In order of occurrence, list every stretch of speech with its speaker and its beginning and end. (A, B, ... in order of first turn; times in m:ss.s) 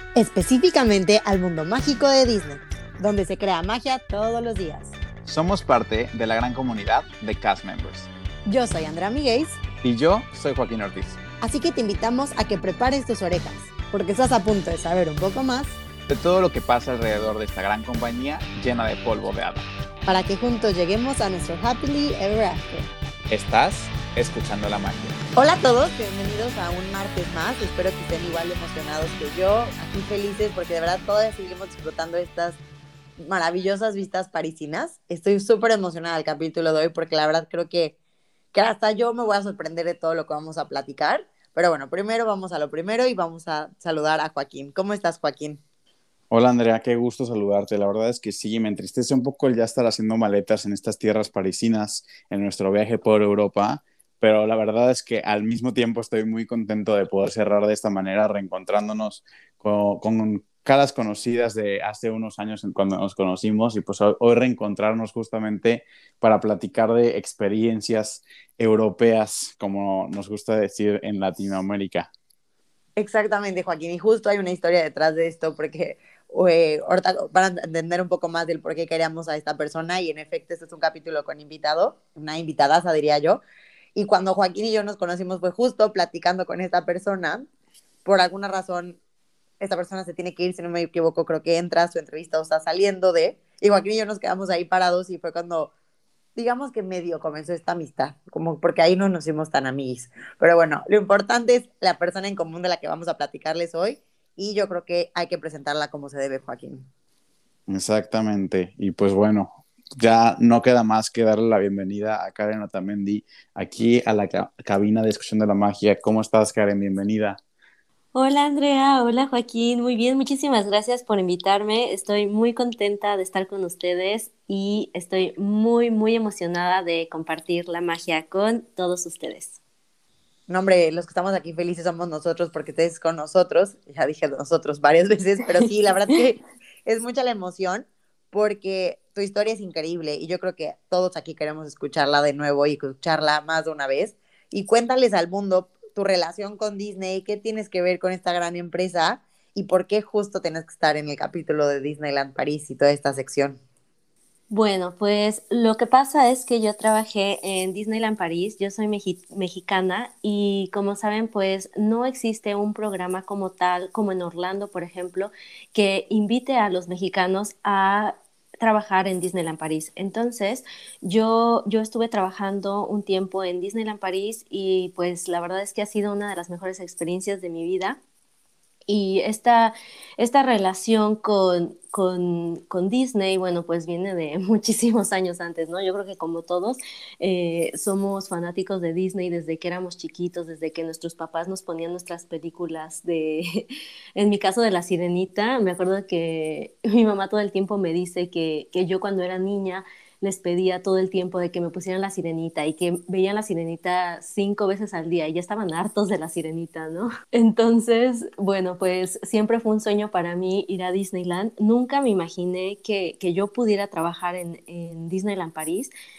0:00.2-0:05.0 A
0:05.3-0:08.1 B
0:08.5-0:09.6 A
0:09.8-0:11.2 B
0:11.4-0:15.8 A
0:16.1-0:19.7 B
0:20.1-0:22.9 A
0:23.3-0:25.2 B
0:25.4-0:32.6 A
0:33.2-0:38.0 A
0:38.5-0:45.6 A
0:46.3-1:12.1 B
1:13.0-1:23.4 A
1:24.0-1:27.5 A
1:28.0-1:29.0 A
1:29.6-1:35.7 A
1:36.4-1:46.9 A
1:47.7-1:57.4 B
1:58.1-2:09.6 C
2:10.5-2:33.6 A
2:34.5-2:58.0 C
2:58.9-3:35.9 C